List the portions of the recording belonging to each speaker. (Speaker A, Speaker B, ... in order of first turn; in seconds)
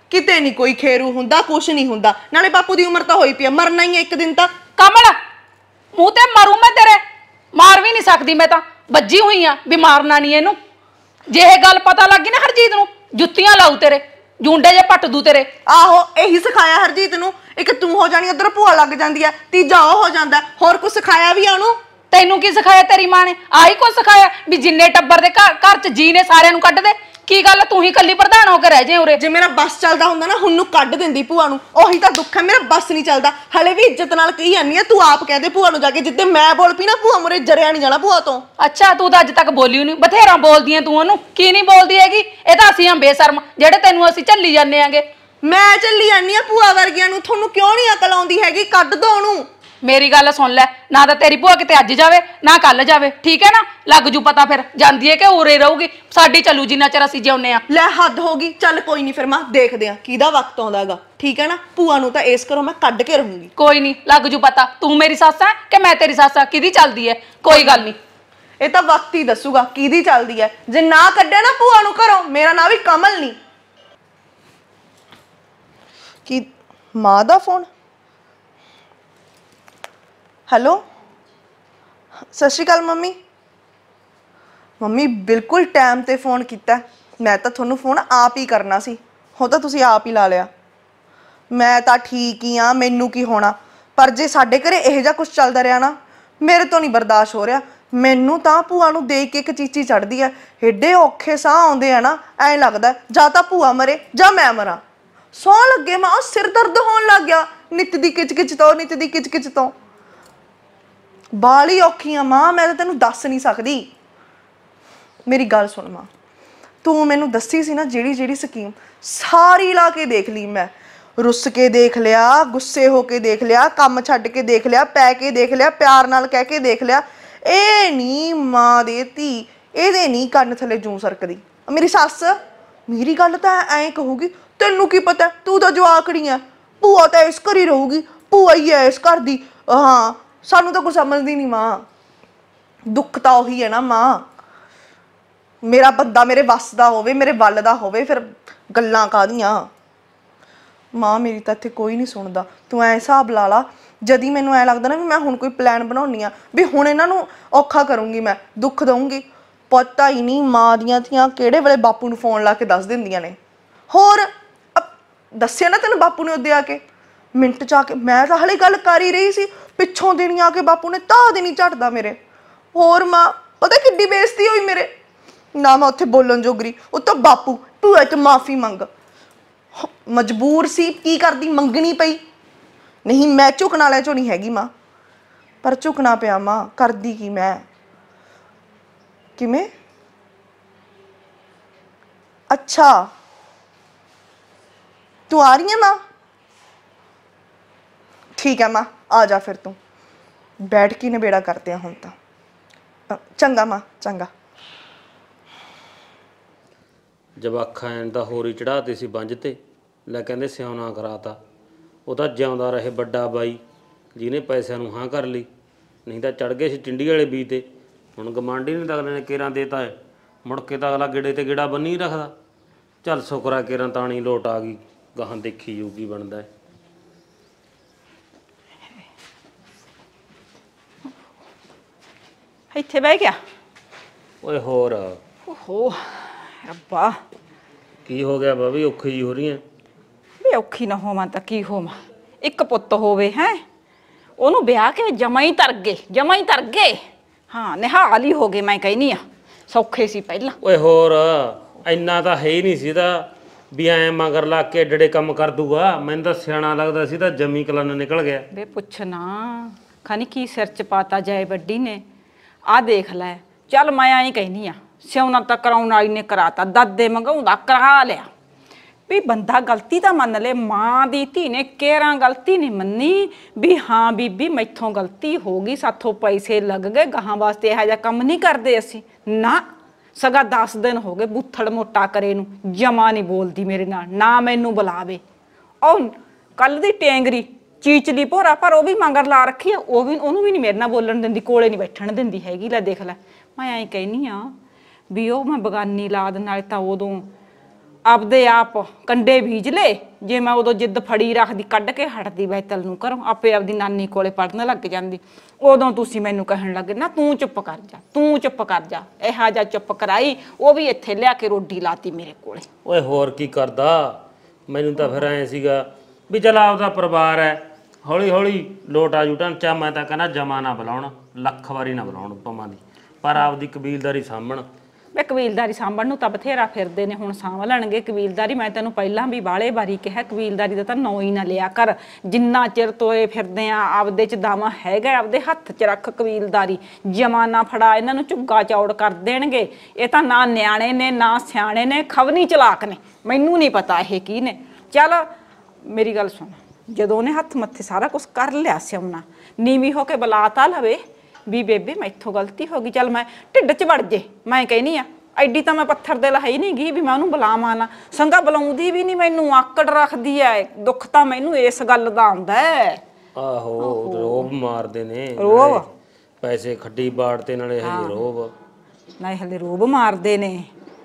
Speaker A: 0.1-4.5, 15.7-21.8, 29.2-38.4, 45.4-49.5, 57.7-63.5, 68.6-73.4, 76.3-77.7, 80.5-80.8, 82.3-83.2, 84.8-90.5, 91.5-104.8, 105.3-109.8, 111.3-113.9, 115.3-116.1, 116.8-141.8, 142.9-144.3, 145.6-149.7, 150.9-163.4, 163.9-166.8, 167.4-172.2, 172.7-174.9, 175.6-178.9, 179.8-182.2, 183.1-184.7, 185.6-187.7, 189.4-189.7, 192.5-193.1, 195.3-196.0, 198.4-199.8, 200.6-202.2, 203.1-204.3
Speaker B: 4.8-5.2, 6.0-7.0, 7.5-10.6, 11.3-15.5, 22.1-29.2, 38.6-45.0, 49.8-57.6, 63.6-68.0
Speaker C: 207.4-209.6, 210.1-211.4, 212.1-213.6, 214.2-215.5, 216.1-217.6, 218.2-219.9, 220.4-222.3, 223.0-226.5, 234.4-235.2, 238.1-239.6, 250.6-258.4, 312.9-314.2, 314.7-324.6, 363.4-365.8, 366.4-368.5
Speaker D: 232.7-233.4, 235.5-237.2, 240.4-243.6, 244.4-247.0, 247.5-250.6, 258.5-262.0, 262.7-268.3, 269.1-285.2, 285.8-294.5, 295.1-297.3, 298.1-312.7, 325.2-345.3, 345.9-363.0, 363.8-364.5, 365.4-365.9, 367.8-368.2, 369.2-370.7